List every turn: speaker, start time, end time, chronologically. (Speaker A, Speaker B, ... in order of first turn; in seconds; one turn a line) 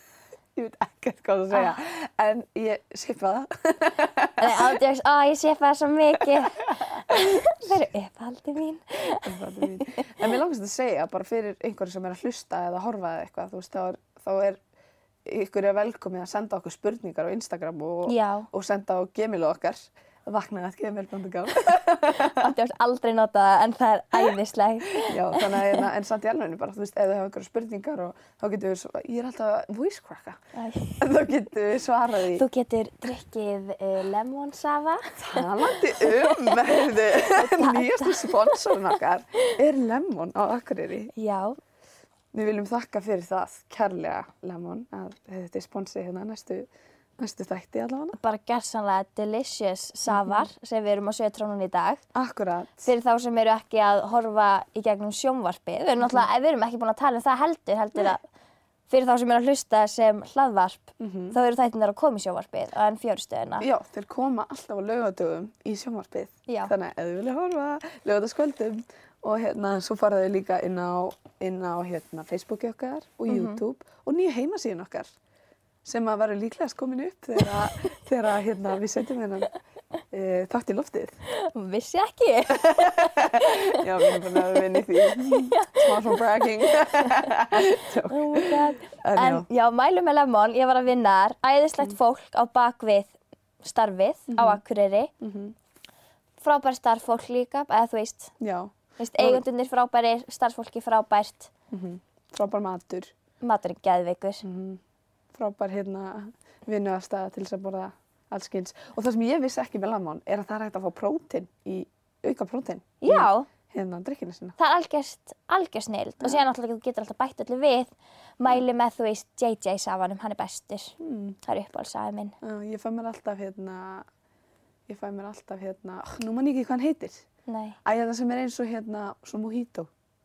Speaker A: 0.6-4.8
Speaker B: 1.5-1.8
Speaker B: 4.4-10.1
Speaker A: 6.2-7.5
Speaker A: 9.2-14.6
Speaker A: 15.2-22.5
Speaker B: 18.1-18.5
Speaker B: 22.1-25.9
Speaker A: 24.9-30.4
Speaker B: 30.6-31.0
Speaker A: 31.0-32.5
Speaker B: 32.3-39.6
Speaker A: 35.2-41.1
Speaker B: 41.1-41.6
Speaker A: 42.3-48.2
Speaker B: 48.2-52.0
Speaker A: 50.1-50.5
Speaker A: 52.1-52.9
Speaker B: 52.8-58.2
Speaker B: 58.9-63.7
Speaker A: 61.0-61.4
Speaker A: 63.6-75.1
Speaker B: 66.5-66.7
Speaker B: 73.3-73.6
Speaker A: 75.8-79.5
Speaker A: 80.1-81.2
Speaker B: 81.3-95.1
Speaker A: 82.5-89.5
Speaker A: 94.3-94.6
Speaker A: 95.2-95.5
Speaker B: 96.4-98.3
Speaker A: 98.4-99.4
Speaker B: 99.0-101.5
Speaker A: 101.7-103.1
Speaker B: 103.4-104.5
Speaker A: 104.4-104.8
Speaker A: 105.3-114.6
Speaker B: 113.0-113.5
Speaker B: 114.6-122.4
Speaker A: 121.0-121.4
Speaker A: 122.4-124.1
Speaker A: 124.9-127.2
Speaker B: 127.5-127.8
Speaker A: 127.8-129.9